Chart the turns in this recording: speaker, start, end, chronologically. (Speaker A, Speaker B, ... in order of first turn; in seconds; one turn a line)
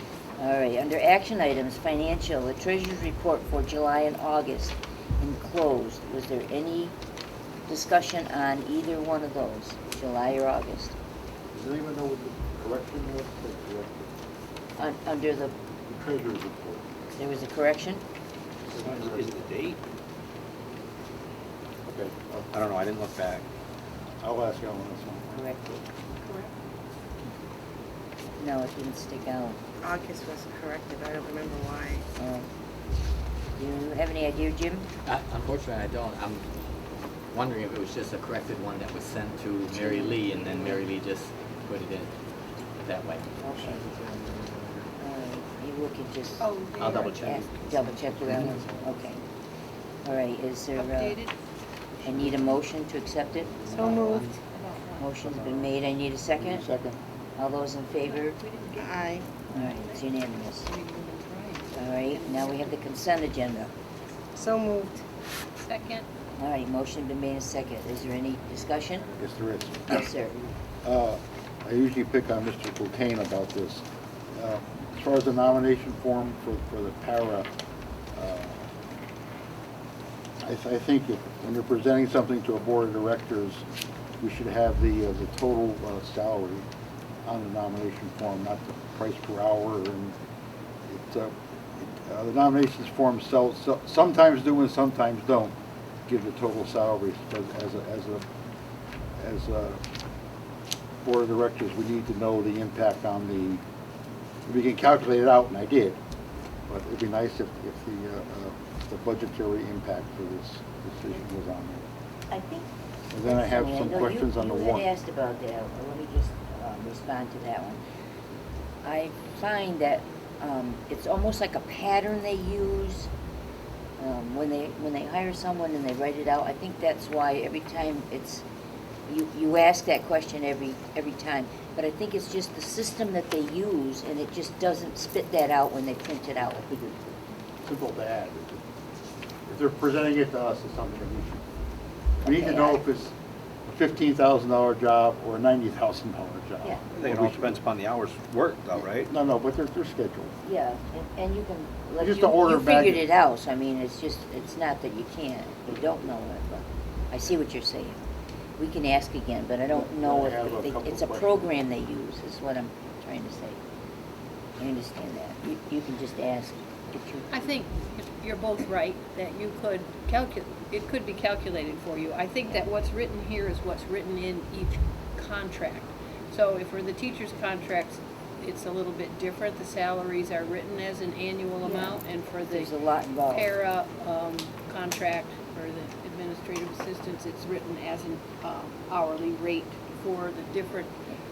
Speaker A: 0.4-7.0
Speaker A: 7.7-11.0
Speaker B: 11.5-14.1
Speaker A: 14.8-15.5
Speaker B: 15.9-16.8
Speaker A: 17.1-18.0
Speaker B: 18.7-19.4
Speaker C: 18.7-19.8
Speaker B: 21.9-22.5
Speaker C: 22.5-23.4
Speaker B: 24.2-25.3
Speaker A: 25.3-25.9
Speaker D: 26.2-26.5
Speaker A: 28.4-29.6
Speaker E: 29.8-32.0
Speaker A: 32.2-32.5
Speaker A: 33.6-34.9
Speaker F: 35.1-36.5
Speaker F: 37.3-42.1
Speaker A: 39.7-40.8
Speaker F: 42.8-43.3
Speaker A: 43.4-43.9
Speaker A: 45.0-46.5
Speaker E: 46.4-47.2
Speaker F: 46.8-47.5
Speaker A: 47.1-49.2
Speaker A: 50.0-51.2
Speaker D: 50.8-51.3
Speaker A: 52.0-54.2
Speaker E: 53.7-54.3
Speaker D: 53.9-55.1
Speaker A: 55.0-56.6
Speaker B: 56.4-57.0
Speaker A: 57.4-58.4
Speaker D: 58.0-60.0
Speaker E: 58.8-59.2
Speaker A: 59.5-60.7
Speaker D: 60.7-61.7
Speaker A: 61.7-63.7
Speaker E: 64.3-65.0
Speaker D: 65.7-66.1
Speaker A: 66.4-69.1
Speaker B: 69.2-70.0
Speaker A: 69.9-70.4
Speaker B: 70.8-77.5
Speaker B: 78.1-78.7
Speaker B: 80.4-83.7
Speaker B: 84.2-86.7
Speaker B: 87.2-90.2
Speaker B: 90.9-95.5
Speaker B: 96.1-98.2
Speaker B: 99.2-99.8
Speaker B: 101.0-103.6
Speaker B: 104.5-106.0
Speaker B: 106.7-111.8
Speaker A: 112.3-117.8
Speaker B: 113.1-114.9
Speaker A: 118.8-123.1
Speaker A: 124.0-128.4
Speaker A: 129.1-136.8
Speaker B: 136.4-138.6
Speaker B: 139.5-141.4
Speaker B: 142.2-143.1
Speaker A: 142.2-142.9
Speaker B: 143.7-147.6
Speaker C: 146.9-149.1
Speaker B: 149.0-150.3
Speaker A: 150.4-158.0
Speaker B: 152.0-153.1
Speaker B: 155.7-156.2
Speaker A: 158.6-163.6
Speaker B: 159.7-161.7
Speaker A: 164.6-167.6
Speaker D: 167.3-182.7
Speaker A: 181.6-183.5
Speaker D: 183.3-191.0